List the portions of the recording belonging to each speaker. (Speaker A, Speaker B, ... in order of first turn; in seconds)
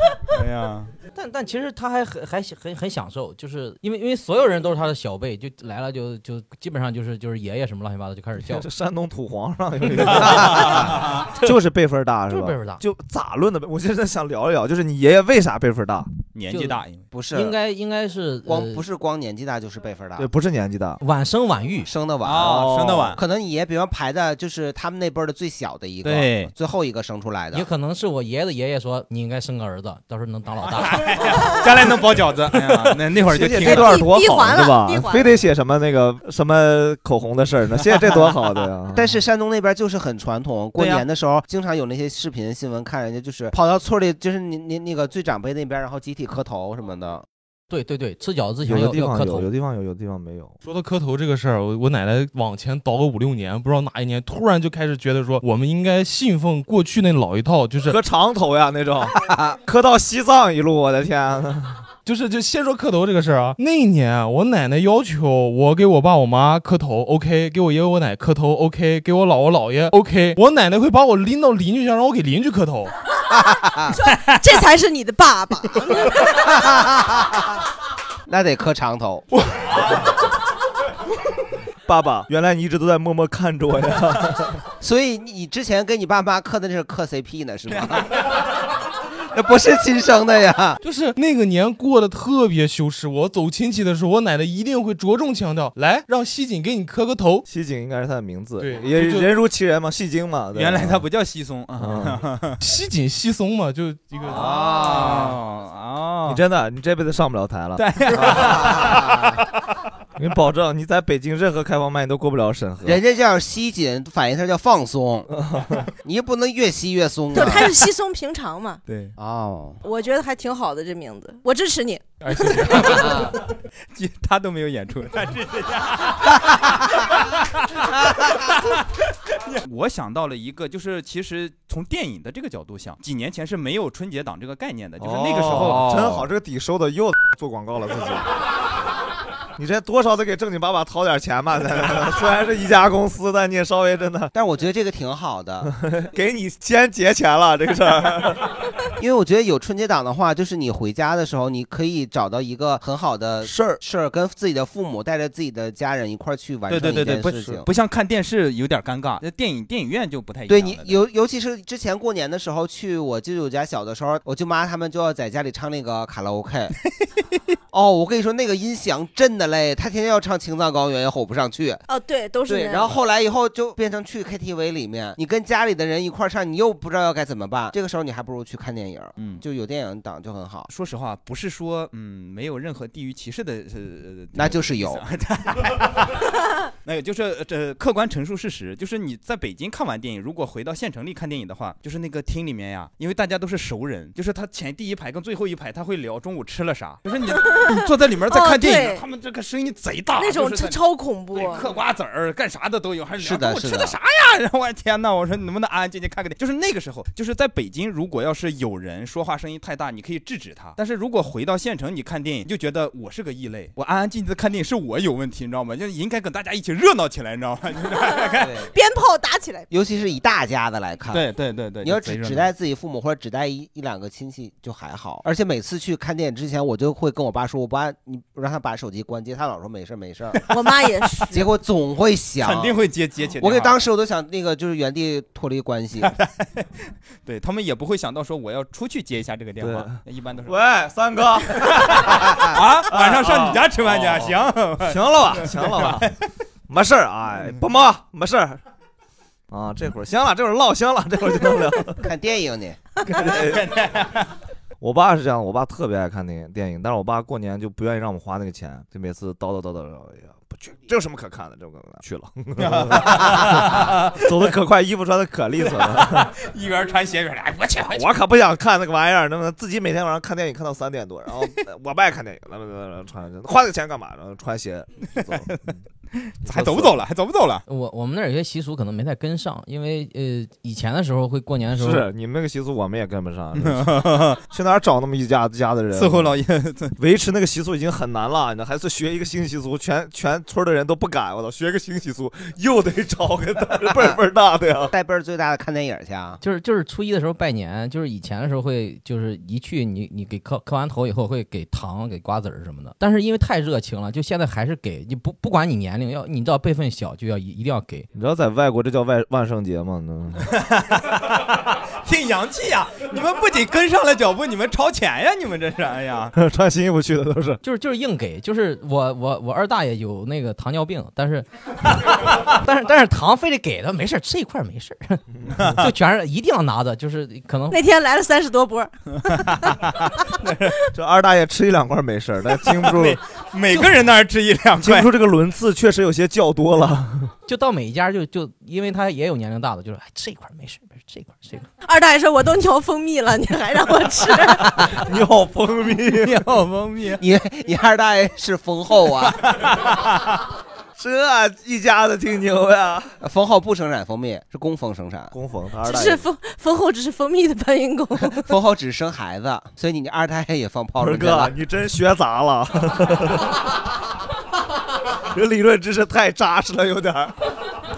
Speaker A: 0.2-0.9, 10.3-11.1, 16.3-17.1, 22.2-23.2, 26.0-26.5, 30.7-34.0, 40.8-41.0, 74.0-74.4, 100.5-102.6, 104.3-106.4, 107.8-109.4, 118.9-119.1, 122.4-123.3, 123.9-128.8, 129.4-136.3, 156.7-161.0, 179.2-179.4, 180.7-186.3, 186.8-218.5, 221.1-222.5, 232.4-233.8, 236.0-236.7, 237.2-240.6, 241.6-246.1, 253.1-254.3, 262.6-264.4, 265.6-268.1, 275.2-275.6, 276.1-277.6, 283.6-284.4, 285.9-286.9, 310.5-316.3, 325.6-325.9, 330.4-330.8, 332.6-335.1, 346.2-347.2
Speaker B: 1.1-8.7, 12.3-12.8, 17.3-18.8, 21.0-21.9, 27.5-31.1, 47.7-49.5, 277.7-282.1, 296.4-308.1, 317.6-325.2, 325.8-327.8, 337.4-341.7
Speaker C: 8.4-16.1, 20.2-21.0, 22.3-23.1, 33.2-39.2, 48.6-50.5, 57.9-61.8, 81.8-84.6, 97.5-101.0, 101.8-102.2, 106.2-108.8, 110.2-113.0, 115.3-115.8, 135.0-138.2, 139.6-144.3, 145.6-148.4, 153.4-153.8, 239.6-242.3, 242.9-246.1, 246.7-248.6, 249.5-252.0, 253.1-253.8, 254.8-266.3, 267.9-275.7, 276.4-277.0, 281.8-286.4, 287.0-294.9, 308.1-310.5, 316.3-317.6, 325.4-325.8, 330.9-333.2, 334.8-337.3, 344.7-346.5, 351.0-353.1, 355.3-356.3, 361.0-363.5, 365.3-367.4
Speaker D: 17.1-17.6, 18.4-20.3, 21.8-27.6, 38.9-47.2, 59.2-59.5, 73.3-74.0, 76.3-77.4, 78.3-79.2, 84.8-88.2, 89.3-90.8, 104.3-105.3, 108.2-109.2, 112.8-115.3, 116.0-117.7, 119.2-119.8, 122.9-123.3, 144.3-145.7, 149.0-157.7, 160.5-166.7, 167.7-171.8, 172.4-180.7, 184.3-185.0, 203.2-203.9, 218.4-218.7, 219.7-221.2, 221.8-230.5, 231.3-232.8, 233.4-236.1, 252.0-252.8, 294.9-296.4, 347.2-349.5, 353.2-355.3, 358.2-361.5
Speaker E: 33.6-35.3, 74.0-76.1, 117.3-118.8, 119.8-123.0, 171.9-173.0, 197.3-199.1, 200.2-201.7, 218.0-219.7, 230.5-231.5, 327.7-329.6, 341.8-345.0, 355.8-358.5
Speaker F: 50.6-58.0, 62.0-72.9, 90.8-97.5, 98.6-99.3, 102.6-104.5